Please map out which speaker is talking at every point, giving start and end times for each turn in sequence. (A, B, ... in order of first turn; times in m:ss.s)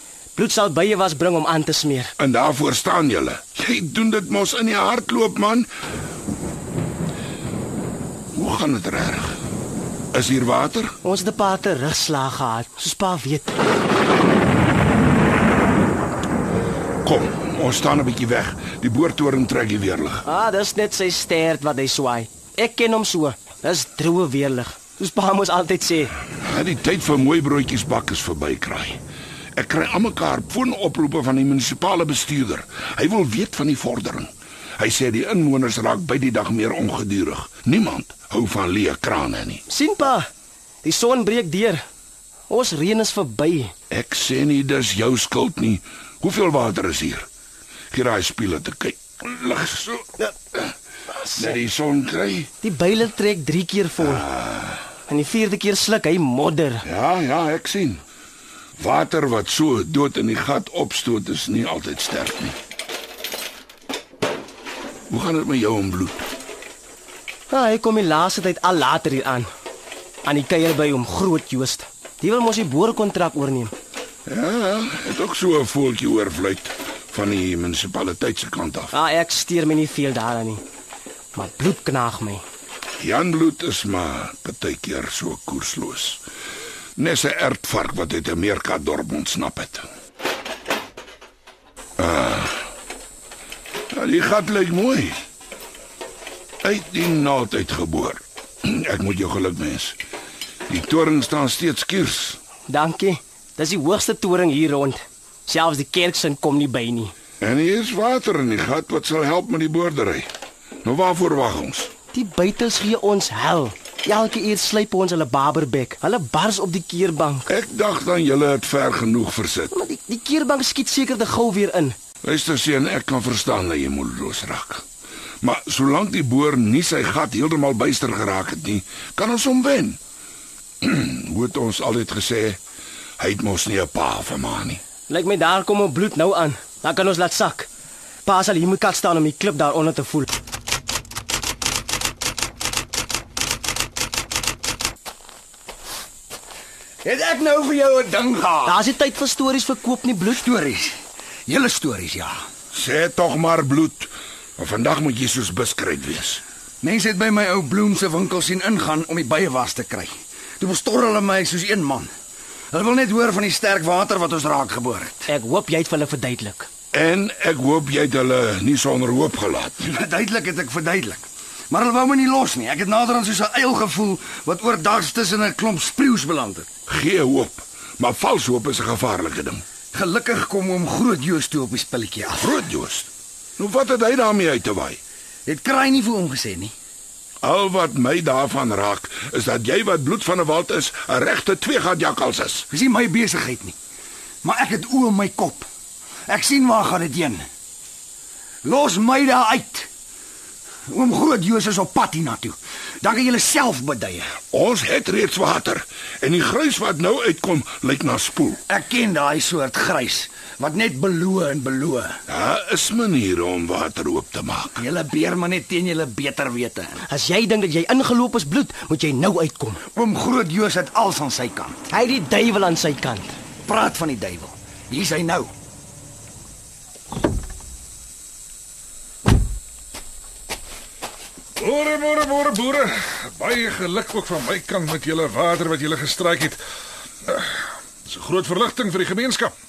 0:00.4-0:02.1 A
0:02.2-0:05.7 B
0:08.3-0:09.4 B
0:10.1-0:10.9 B
0:11.0-0:13.6 A
0:17.0-0:20.2 B
0:20.2-0:26.2 A
0:26.4-0:29.0 B
0:29.6-0:39.6 B
0:39.7-0:40.3 A
0:40.8-0:41.8 A
0:42.5-0:43.7 A
0:43.9-0:47.3 B
0:47.9-0:50.7 B
0:51.2-0:51.6 A
0:51.4-0:52.5 B
0:52.6-0:54.3 A
0:54.0-0:54.9 B
0:55.1-0:56.8 A
0:56.8-0:58.0 B
0:58.8-1:02.6 B
1:05.1-1:06.3 B
1:07.5-1:09.5 A
1:10.2-1:13.7 A
1:14.3-1:18.9 B
1:18.9-1:20.6 A
1:21.4-1:22.4 A
1:23.0-1:26.2 B
1:27.0-1:29.9 B
1:32.0-1:32.7 B
1:33.9-1:35.2 B
1:36.6-1:40.0 B
1:40.7-1:42.4 B
1:42.7-1:47.1 A
1:47.4-1:50.3 B
1:50.8-1:51.9 B
1:52.1-1:57.5 A
1:57.5-1:59.7 B
1:59.7-2:02.0 A
2:02.2-2:04.8 B
2:05.4-2:10.0 B
2:10.8-2:12.6 B
2:13.2-2:14.8 B
2:15.1-2:17.7 A
2:18.2-2:20.3 A
2:27.0-2:28.8 C
2:28.7-2:30.5 A
2:30.4-2:30.9 C
2:31.5-2:32.4 C
2:32.7-2:36.4 B
2:36.8-2:42.1 C
2:42.7-2:45.3 C
2:45.3-2:46.7 A
2:46.9-2:49.8 B
2:49.9-2:56.7 C
2:56.9-2:59.6 B
2:59.9-3:02.6 C
3:02.4-3:05.0 B
3:05.5-3:06.7 C
3:07.4-3:12.7 B
3:12.7-3:13.8 C
3:14.4-3:15.7 C
3:16.3-3:17.5 C
3:18.6-3:19.9 C
3:20.9-3:24.4 C
3:24.5-3:28.6 B
3:28.7-3:32.2 C
3:32.3-3:34.8 B
3:34.8-3:37.0 C
3:37.1-3:39.8 A
3:40.0-3:41.9 C
3:41.9-3:43.4 A
3:43.6-3:45.5 C
3:51.6-3:56.6 D
3:57.2-3:59.5 D